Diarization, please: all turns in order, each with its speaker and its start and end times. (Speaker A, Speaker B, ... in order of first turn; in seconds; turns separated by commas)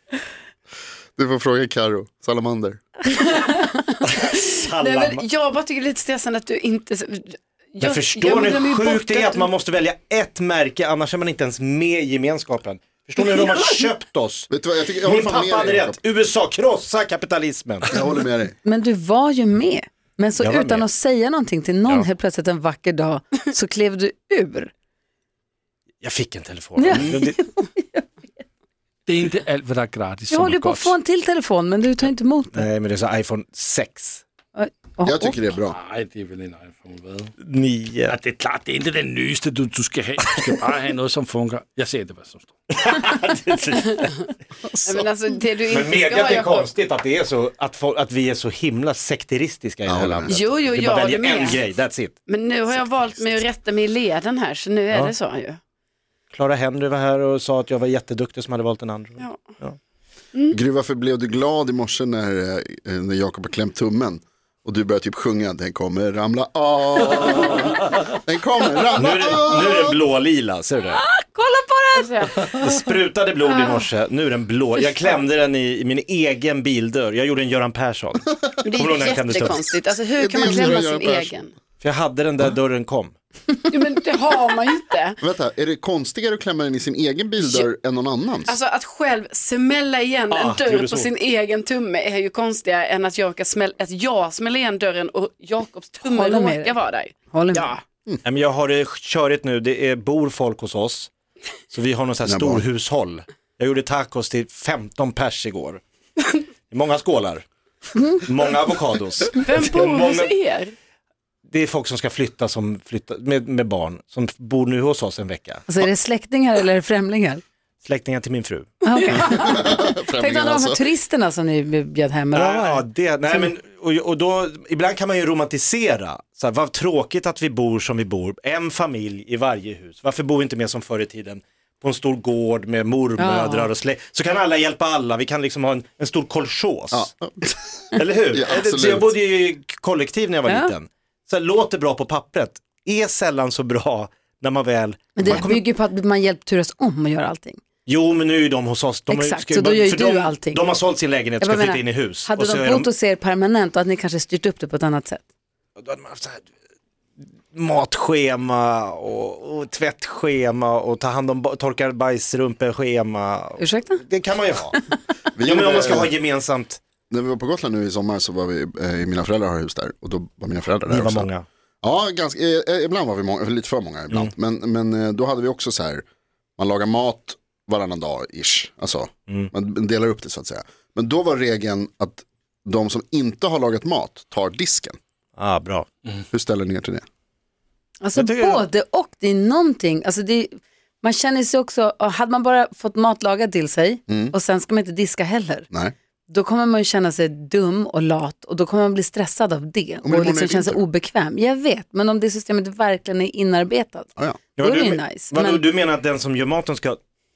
Speaker A: 1.1-2.8, Speaker B: 3.1-9.5, Speaker C: 4.0-5.2, Speaker C: 7.8-14.5, Speaker A: 14.5-16.0, Speaker C: 15.0-18.0, Speaker A: 17.9-18.5, Speaker D: 18.6-24.7, Speaker C: 20.4-20.9, Speaker C: 26.0-27.4, Speaker D: 26.8-28.1, Speaker A: 26.9-27.2, Speaker E: 29.1-30.9, Speaker D: 30.3-32.6, Speaker C: 32.0-34.2, Speaker D: 34.5-35.4, Speaker A: 35.0-35.8, Speaker E: 35.7-37.3, Speaker C: 37.4-38.1, Speaker E: 38.1-42.5, Speaker C: 42.7-44.2, Speaker A: 44.6-45.1, Speaker B: 44.8-46.7, Speaker C: 45.7-52.2, Speaker A: 49.9-50.4, Speaker B: 50.3-51.6, Speaker B: 52.3-55.6, Speaker C: 56.3-59.8, Speaker A: 60.5-70.0, Speaker C: 69.0-71.0, Speaker D: 70.9-72.1, Speaker B: 71.9-72.5, Speaker C: 72.4-79.7, Speaker B: 78.6-81.5, Speaker A: 80.2-81.3, Speaker C: 81.8-83.1, Speaker B: 83.7-85.2, Speaker A: 85.2-88.5, Speaker B: 87.4-87.7, Speaker B: 88.5-97.8, Speaker C: 90.3-91.1, Speaker D: 96.1-96.8, Speaker D: 97.3-97.7, Speaker C: 98.2-101.1, Speaker C: 101.7-105.8, Speaker A: 102.2-102.6, Speaker C: 106.7-107.4, Speaker D: 107.9-108.2, Speaker C: 108.2-110.3, Speaker B: 109.3-110.7, Speaker C: 111.5-115.7, Speaker D: 115.7-117.4, Speaker C: 117.8-119.2, Speaker D: 118.8-123.5, Speaker B: 119.0-119.6, Speaker A: 119.3-120.8, Speaker C: 122.3-137.1, Speaker D: 133.2-133.7, Speaker A: 136.9-139.1, Speaker C: 137.9-145.6, Speaker D: 140.4-140.7, Speaker D: 145.2-147.6, Speaker C: 147.9-152.9, Speaker D: 149.1-150.6, Speaker D: 151.4-155.2, Speaker C: 155.8-156.4, Speaker C: 157.5-164.8, Speaker D: 163.6-164.0, Speaker A: 165.3-166.2, Speaker C: 165.4-166.8, Speaker A: 167.1-171.3, Speaker C: 170.9-171.4, Speaker A: 171.8-176.0, Speaker A: 176.6-185.0, Speaker C: 185.4-185.8, Speaker A: 186.3-187.0, Speaker D: 188.0-195.7, Speaker C: 188.1-188.7, Speaker A: 194.1-194.3, Speaker D: 196.3-205.6, Speaker A: 200.0-200.8, Speaker C: 204.6-207.0